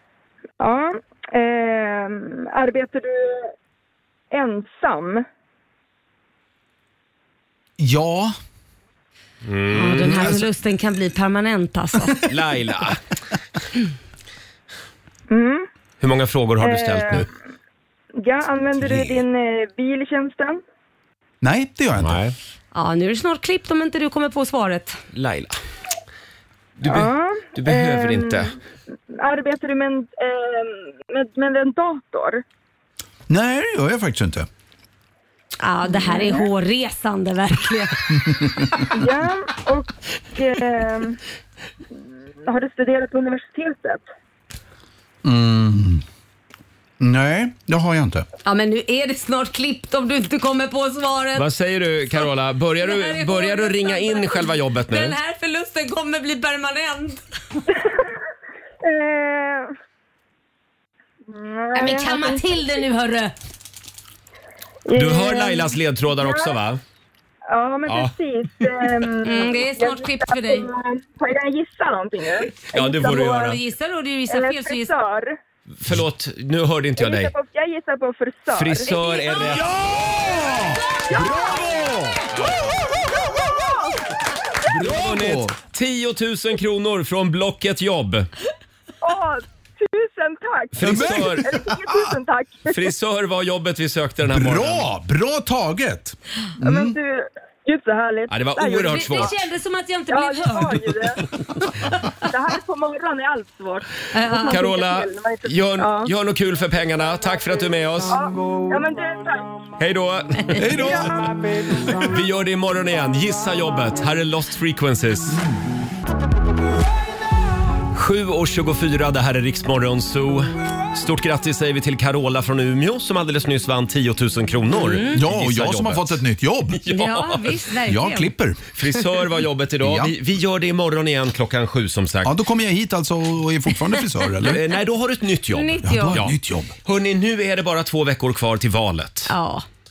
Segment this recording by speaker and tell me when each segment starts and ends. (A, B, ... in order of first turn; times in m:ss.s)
0:00.6-0:03.5 A
0:04.3-0:05.2 A
0:07.8-0:08.3 B
0:09.4-0:10.4 C
0:09.7-0:12.2 D
0:10.0-0:10.4 B
0:12.2-0:13.0 C
0:15.3-0:15.7 A
0:16.0-0:17.3 C
0:16.6-0:17.3 A
0:18.2-0:20.6 A
0:18.8-0:19.2 B
0:21.4-0:22.2 B
0:22.0-0:22.3 C
0:22.7-0:25.0 D
0:25.1-0:25.6 C
0:26.8-0:28.5 C
0:26.8-0:28.5 A
0:29.1-0:32.4 A
0:33.3-0:34.5 B
0:35.6-0:38.1 D
0:35.9-0:36.4 A
0:38.1-0:38.9 B
0:38.9-0:41.2 A
0:42.4-0:44.0 A
0:45.2-0:46.0 B
0:47.0-0:48.2 B
0:48.4-0:51.4 D
0:51.4-0:55.2 C
0:52.8-0:57.2 D
0:58.8-0:59.7 A
1:01.3-1:02.4 A
1:01.7-1:03.3 D
1:04.9-1:06.6 A
1:04.9-1:06.8 C
1:07.5-1:13.5 A
1:07.9-1:08.1 C
1:09.2-1:10.7 D
1:12.6-1:13.6 C
1:13.1-1:14.9 D
1:14.3-1:15.4 A
1:15.8-1:17.3 C
1:17.0-1:18.9 A
1:18.5-1:19.7 C
1:18.8-1:19.5 D
1:19.4-1:22.4 B
1:21.1-1:21.8 A
1:22.3-1:22.7 C
1:23.6-1:23.9 A
1:24.6-1:25.5 B
1:24.8-1:28.3 C
1:29.0-1:32.9 A
1:30.7-1:31.6 C
1:30.8-1:32.1 B
1:32.7-1:34.9 C
1:34.3-1:37.0 B
1:36.6-1:39.3 A
1:38.3-1:39.3 C
1:38.9-1:41.2 D
1:40.1-1:41.2 A
1:41.8-1:42.1 D
1:42.3-1:46.1 A
1:44.1-1:44.6 D
1:44.5-1:48.2 C
1:48.1-1:49.5 A
1:49.8-1:51.1 C
1:50.6-1:52.1 B
1:50.8-1:51.2 A
1:52.0-1:55.4 C
1:57.9-2:07.6 C
2:04.7-2:05.2 D
2:05.1-2:06.8 B
2:06.9-2:08.3 D
2:07.8-2:08.6 B
2:08.8-2:12.3 C
2:09.8-2:10.1 B
2:12.2-2:14.6 B
2:14.4-2:19.3 C
2:15.5-2:16.2 D
2:15.8-2:16.7 B
2:19.3-2:19.6 D